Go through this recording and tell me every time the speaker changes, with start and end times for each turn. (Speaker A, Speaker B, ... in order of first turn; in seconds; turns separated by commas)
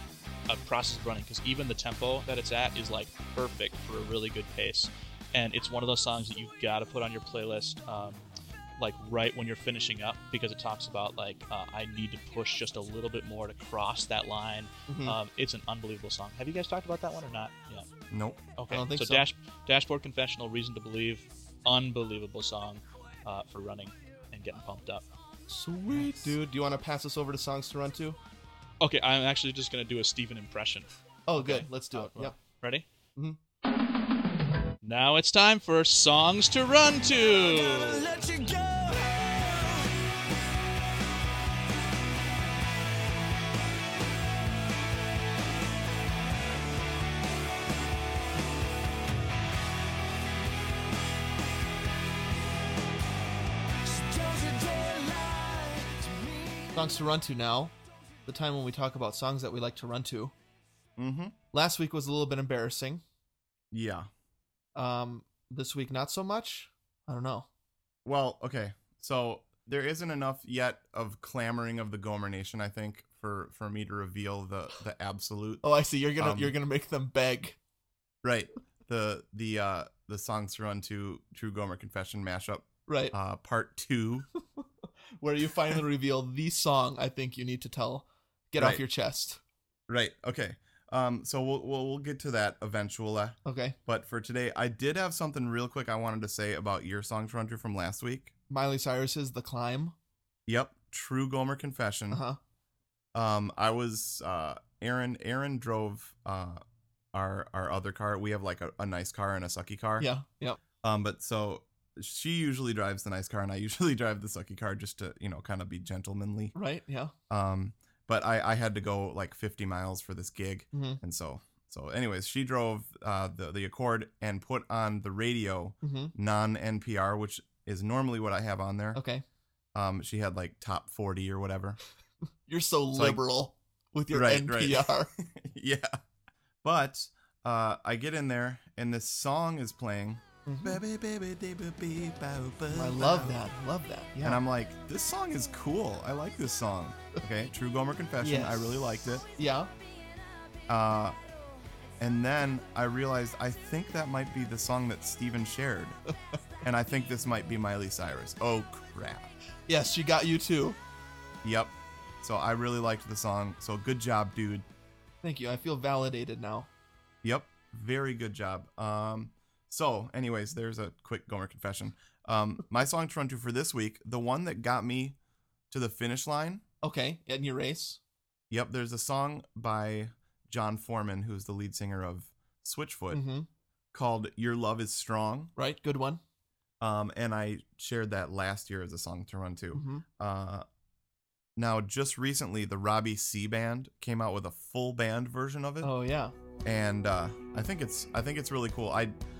Speaker A: 0.5-8.2, Speaker A: 8.8-17.9, Speaker B: 14.9-15.2, Speaker C: 18.1-18.5, Speaker A: 18.6-25.0, Speaker B: 18.7-19.2, Speaker B: 25.5-28.2, Speaker A: 25.9-26.3, Speaker A: 28.8-32.9, Speaker B: 31.3-32.4, Speaker A: 34.8-38.1, Speaker D: 37.4-40.0, Speaker D: 53.8-56.7, Speaker B: 56.7-57.7, Speaker B: 58.2-60.3, Speaker C: 61.0-61.4, Speaker B: 61.5-63.0, Speaker C: 63.7-64.1, Speaker B: 64.7-67.5, Speaker C: 68.0-75.6, Speaker B: 75.6-77.6, Speaker C: 76.2-76.5, Speaker C: 78.2-84.3, Speaker B: 82.9-83.1, Speaker B: 85.2-89.4, Speaker C: 88.6-88.8, Speaker C: 89.9-98.3, Speaker B: 93.4-93.8, Speaker B: 98.5-99.9, Speaker C: 100.5-102.2, Speaker B: 102.1-102.4, Speaker C: 103.1-106.6, Speaker C: 107.1-110.1, Speaker B: 110.0-110.6, Speaker C: 110.8-116.5, Speaker B: 116.5-117.1, Speaker C: 117.3-129.0, Speaker B: 120.7-121.0, Speaker B: 125.8-126.1, Speaker B: 128.9-129.2, Speaker C: 129.7-131.8, Speaker B: 132.5-135.1, Speaker C: 132.9-133.2, Speaker C: 134.1-136.0, Speaker C: 136.6-143.4, Speaker B: 140.4-140.8, Speaker B: 142.7-144.4, Speaker C: 144.2-149.3, Speaker B: 148.2-148.7, Speaker B: 149.4-149.7, Speaker C: 150.7-151.2, Speaker C: 152.0-156.0, Speaker C: 156.6-159.3, Speaker B: 159.7-160.8, Speaker C: 161.4-164.7, Speaker B: 165.2-166.7, Speaker C: 167.2-175.2, Speaker C: 175.7-176.6, Speaker B: 176.8-178.0, Speaker C: 178.5-183.2, Speaker B: 183.1-183.5, Speaker C: 183.9-185.5, Speaker B: 185.6-186.2, Speaker C: 186.8-190.6, Speaker B: 189.7-190.0, Speaker C: 191.6-195.9, Speaker B: 195.8-196.3, Speaker C: 196.6-199.1